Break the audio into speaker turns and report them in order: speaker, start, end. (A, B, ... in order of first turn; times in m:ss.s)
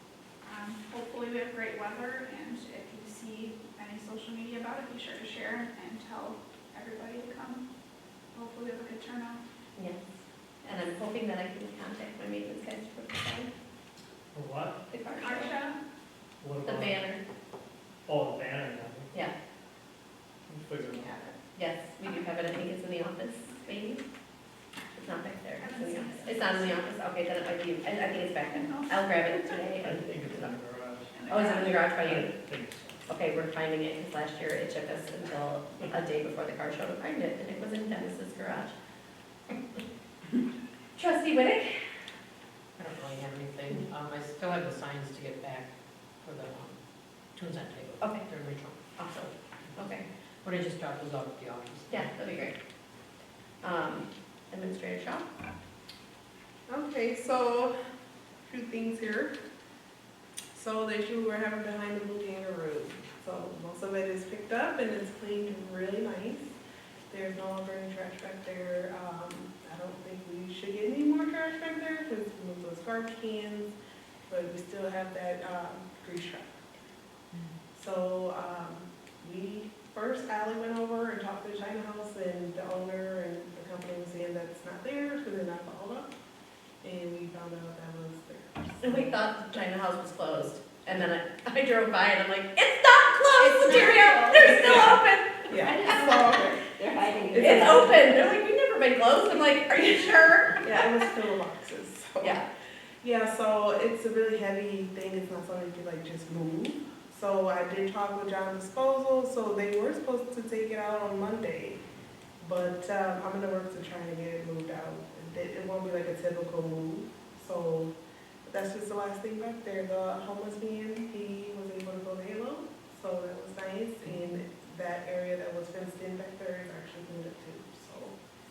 0:00.5-0:07.6 A
0:08.3-0:09.4 A
0:09.8-0:10.1 B
0:10.6-0:13.5 B
0:14.3-0:14.8 C
0:14.9-0:15.6 B
0:15.1-0:15.8 A
0:16.4-0:17.0 C
0:16.6-0:17.2 B
0:18.1-0:19.1 C
0:20.5-0:21.1 C
0:20.8-0:21.4 A
0:21.5-0:24.0 B
0:22.0-0:22.4 A
0:24.9-0:30.6 B
0:25.6-0:26.8 A
0:28.2-0:29.6 A
0:29.8-0:31.3 C
0:31.1-0:31.9 A
0:31.3-0:32.3 B
0:31.8-0:33.1 C
0:33.1-0:38.7 B
0:41.0-0:41.8 B
0:42.8-0:45.7 D
0:46.2-0:46.8 D
0:47.3-0:48.9 D
0:48.0-0:48.3 B
0:48.9-0:50.1 B
0:50.4-0:52.2 D
0:51.9-0:52.5 B
0:53.6-0:55.3 B
0:56.7-0:57.8 E
0:58.5-0:59.4 E
1:00.5-1:06.6 E
1:07.1-1:13.7 E
1:14.3-1:16.6 E
1:17.7-1:26.1 E
1:26.8-1:29.1 E
1:28.8-1:41.0 B
1:33.4-1:34.6 A
1:35.5-1:36.6 E
1:40.6-1:42.4 E
1:42.2-1:42.5 B
1:43.0-1:51.8 E
1:52.4-2:08.2 E